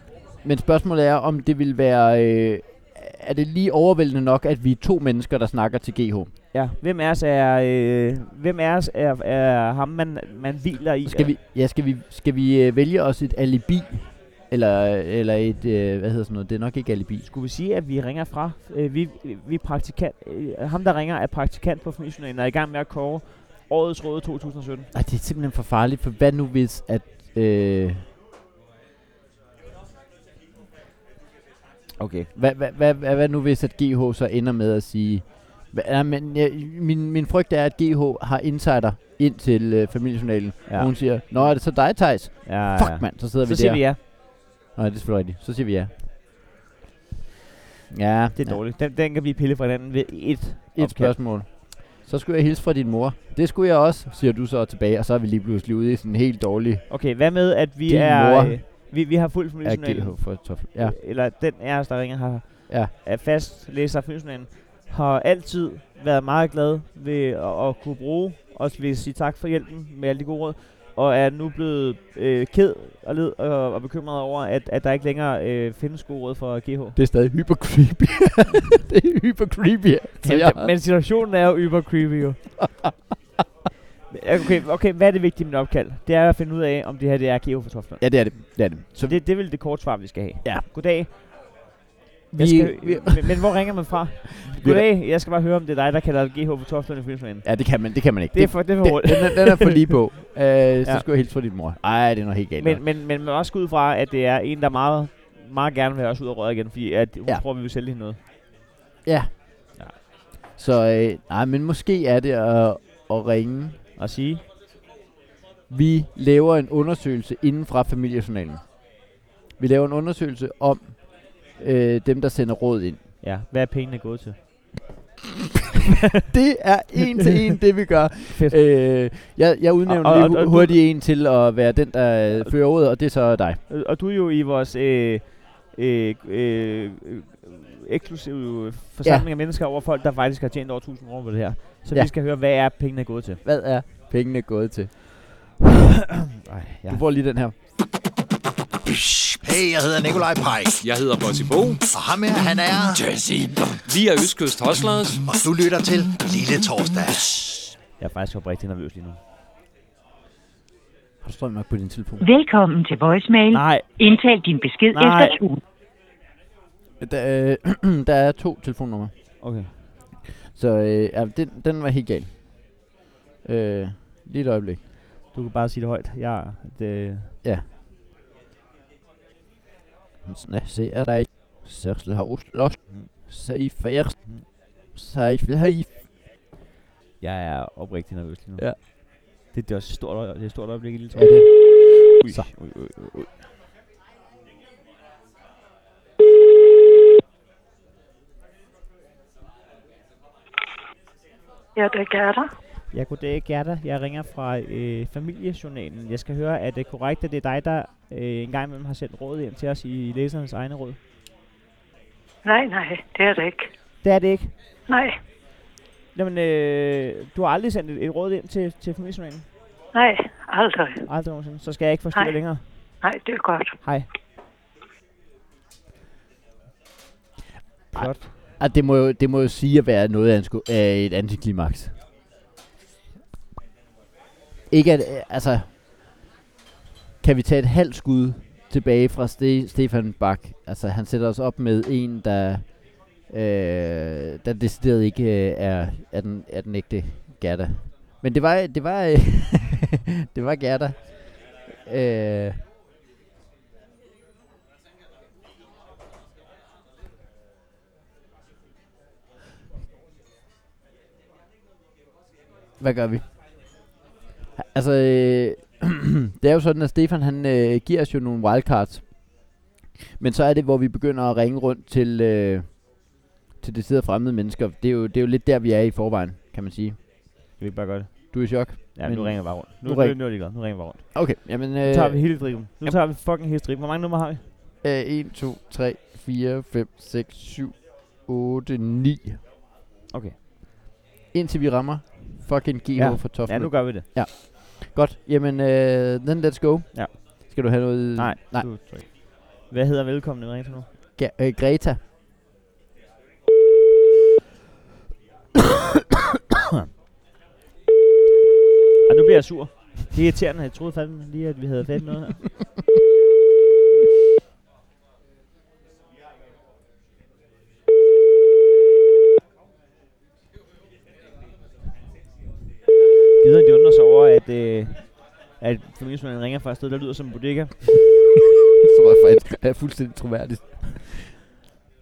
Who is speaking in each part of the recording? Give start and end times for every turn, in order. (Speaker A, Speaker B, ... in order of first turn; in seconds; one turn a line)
Speaker A: 0.4-6.3
Speaker B: 6.5-11.3
Speaker A: 11.1-17.3
Speaker B: 17.3-24.9
Speaker A: 24.9-28.1
Speaker B: 32.0-32.3
Speaker A: 32.3-44.2
Speaker B: 40.7-44.0
Speaker A: 44.7-45.9
Speaker A: 47.9-48.6
Speaker B: 48.4-51.2
Speaker A: 50.8-58.9
Speaker B: 56.9-77.0
Speaker A: 59.6-61.0
Speaker A: 77.0-80.7
Speaker B: 80.2-82.7
Speaker A: 82.6-82.9
Speaker B: 84.1-91.1
Speaker A: 88.0-89.2
Speaker A: 92.3-93.4
Speaker B: 92.4-100.0
Speaker A: 94.5-94.9
Speaker A: 97.4-102.8
Speaker B: 102.6-108.2
Speaker A: 109.0-109.8
Speaker A: 110.6-113.8
Speaker B: 114.0-114.4
Speaker A: 115.7-118.7
Speaker A: 119.6-123.0
Speaker B: 123.2-124.4
Speaker A: 126.2-133.6
Speaker B: 128.3-129.1
Speaker B: 129.9-130.8
Speaker B: 133.7-143.4
Speaker A: 143.4-144.9
Speaker B: 146.4-147.0
Speaker A: 146.9-147.6
Speaker C: 148.9-150.8
Speaker D: 150.8-151.8
Speaker C: 151.9-153.6
Speaker D: 153.9-155.2
Speaker C: 155.2-157.7
Speaker B: 158.0-159.2
Speaker A: 161.2-162.2
Speaker E: 162.2-165.6
Speaker B: 163.5-163.8
Speaker B: 164.9-165.4
Speaker A: 167.0-169.1
Speaker B: 169.4-169.7
Speaker A: 170.5-172.7
Speaker A: 173.4-174.8
Speaker B: 175.3-177.3
Speaker A: 180.3-186.0
Speaker B: 187.2-193.3
Speaker A: 191.1-192.5
Speaker F: 201.8-202.5
Speaker B: 202.9-211.0
Speaker F: 212.4-213.7
Speaker B: 214.0-214.5
Speaker F: 214.9-215.2
Speaker B: 216.1-219.5
Speaker F: 219.9-221.0
Speaker B: 221.1-222.6
Speaker F: 223.0-223.8
Speaker A: 227.9-231.9
Speaker B: 227.9-228.3
Speaker A: 234.7-235.7
Speaker A: 237.2-252.6
Speaker A: 262.8-263.3
Speaker A: 264.6-269.3
Speaker A: 270.2-272.9
Speaker A: 273.6-277.0
Speaker B: 277.6-284.4
Speaker A: 278.3-283.0
Speaker A: 284.8-289.4
Speaker B: 290.1-290.4
Speaker A: 291.3-298.7
Speaker B: 293.0-294.1
Speaker B: 296.9-300.9
Speaker A: 301.2-302.0
Speaker B: 309.1-312.4
Speaker B: 323.4-327.9
Speaker A: 328.8-331.3